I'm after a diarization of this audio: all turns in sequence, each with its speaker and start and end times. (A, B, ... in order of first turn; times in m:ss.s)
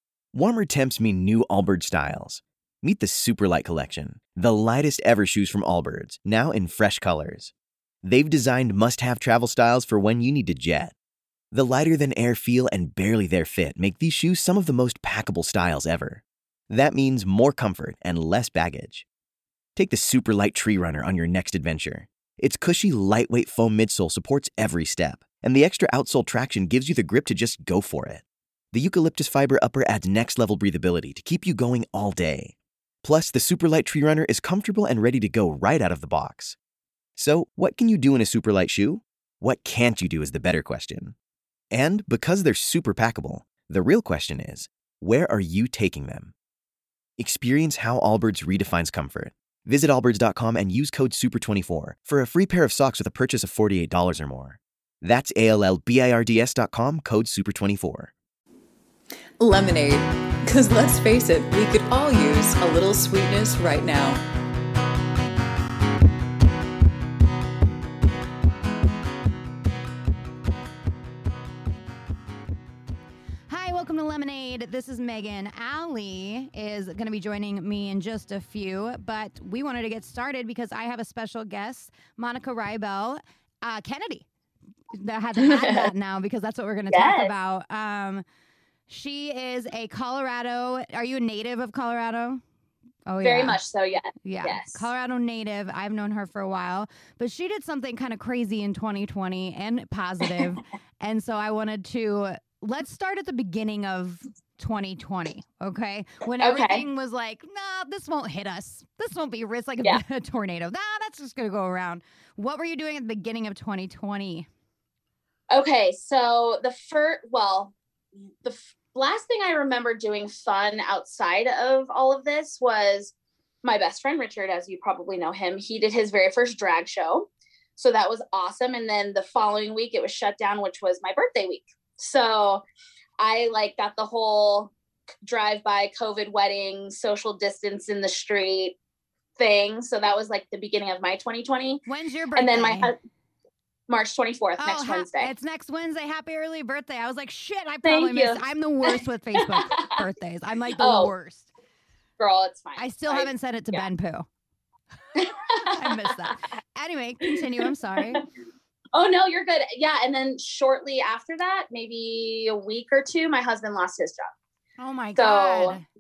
0:00.3-0:07.5 A
0:08.0-0:10.9 A
0:11.5-0:19.1 A
0:19.8-0:36.6 A
0:37.2-0:41.2 A
0:41.7-0:46.3 A
0:47.2-0:58.1 A
0:59.4-1:04.2 B
1:13.5-1:24.3 C
1:24.9-1:28.2 C
1:25.4-1:25.9 D
1:26.9-1:27.3 D
1:28.9-1:32.4 C
1:33.1-1:33.6 C
1:33.2-1:34.9 D
1:34.2-1:54.5 C
1:46.4-1:46.9 D
1:55.5-1:57.7 D
1:58.4-2:12.6 D
2:13.2-2:14.7 D
2:15.2-2:18.8 D
2:19.4-2:21.8 D
2:21.9-2:22.9 C
2:22.4-2:22.9 D
2:23.9-2:25.3 D
2:24.6-2:31.5 C
2:27.8-2:30.0 D
2:30.8-2:31.1 D
2:32.2-2:33.9 D
2:32.8-2:34.3 C
2:35.2-2:36.4 D
2:35.7-2:38.2 C
2:38.9-2:44.3 D
2:44.8-2:45.8 C
2:45.2-2:45.8 D